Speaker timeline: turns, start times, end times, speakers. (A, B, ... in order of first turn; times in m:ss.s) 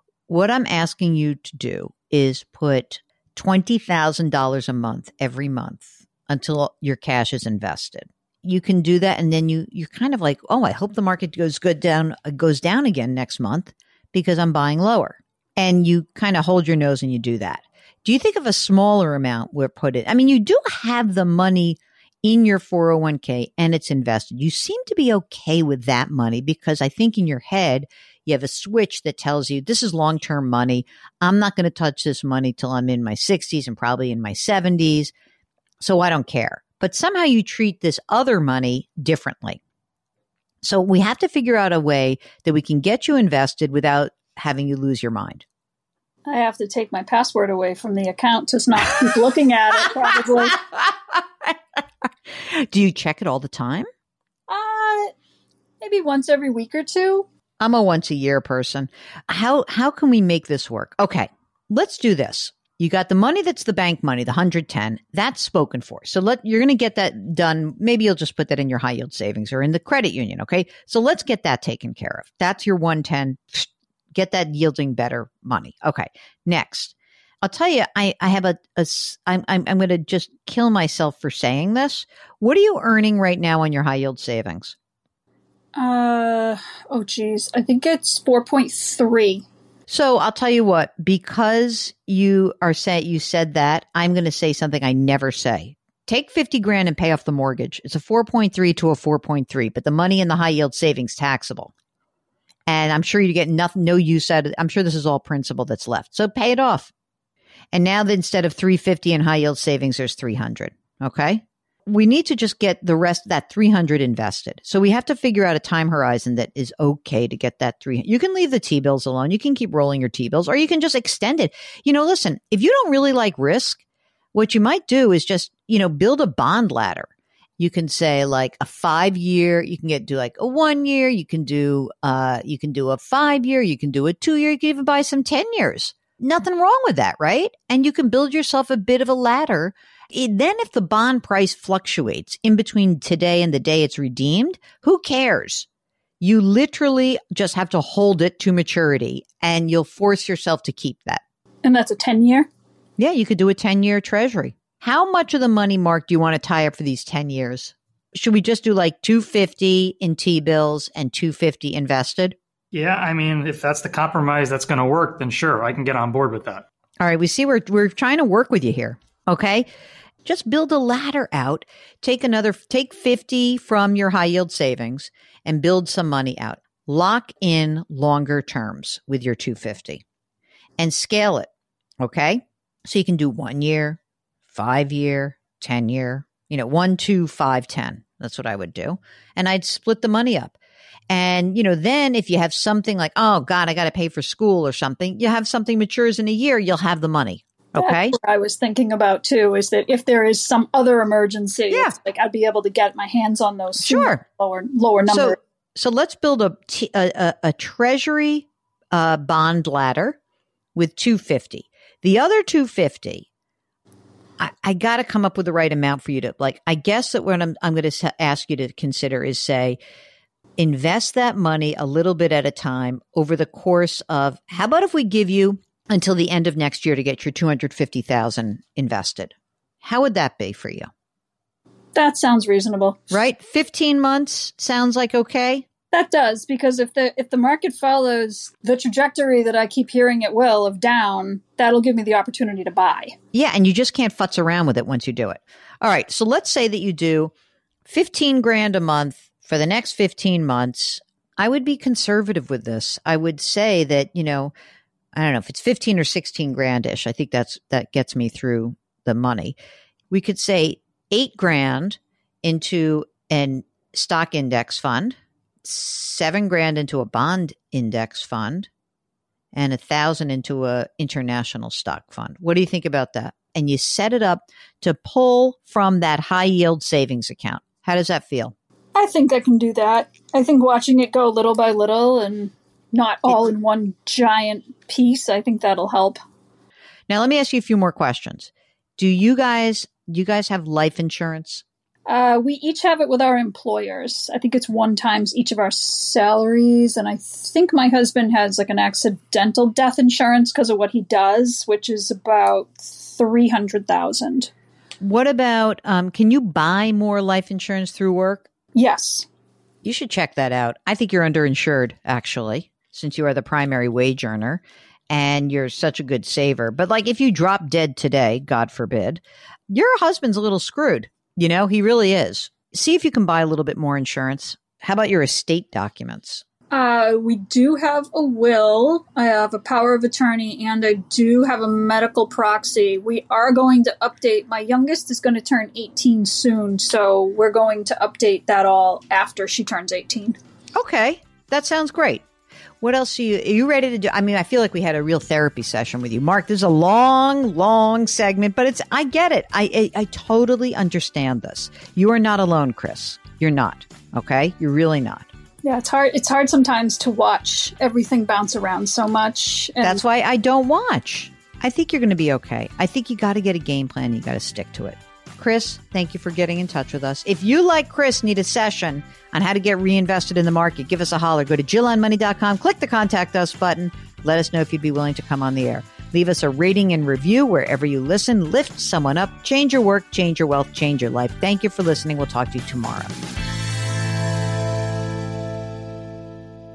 0:00.3-0:35.1 A
0:35.8-0:39.6 A
0:40.6-0:45.4 A
0:46.2-0:50.6 B
0:49.9-0:53.9 A
0:54.5-0:55.1 B
0:55.8-0:57.2 B
0:57.6-1:24.8 A
1:25.7-1:29.4 B
1:29.9-1:41.7 A
1:42.7-1:46.9 A
1:47.7-2:03.8 A
2:04.3-2:07.1 A
2:07.6-2:25.7 A
2:26.2-2:31.2 A
2:31.6-2:32.5 B
2:33.0-2:42.4 A
2:42.7-2:46.6 C
2:47.0-2:49.6 A
2:50.2-3:00.0 A
3:00.8-3:01.5 A
3:02.0-3:04.0 A
3:04.5-3:10.5 A
3:11.1-3:18.2 A
3:17.8-3:25.4 B
3:23.8-3:24.2 A
3:25.0-3:30.2 A
3:30.7-3:33.2 A
3:34.4-3:39.8 A
3:40.6-3:50.9 A
3:51.9-3:53.1 B
3:53.1-3:55.6 A
3:55.9-4:03.2 B
4:03.3-4:07.3 A
4:07.9-4:14.5 A
4:15.1-4:19.5 A
4:20.1-4:28.7 A
4:29.5-4:38.5 A
4:38.9-4:46.2 B
4:47.1-4:51.6 A
4:52.0-5:04.5 B
5:05.0-5:08.5 A
5:08.7-5:09.3 B
5:09.8-5:26.4 A
5:26.7-5:40.4 B
5:40.7-5:42.2 A
5:42.8-5:55.3 A
5:55.6-6:00.0 B
5:59.8-6:23.1 A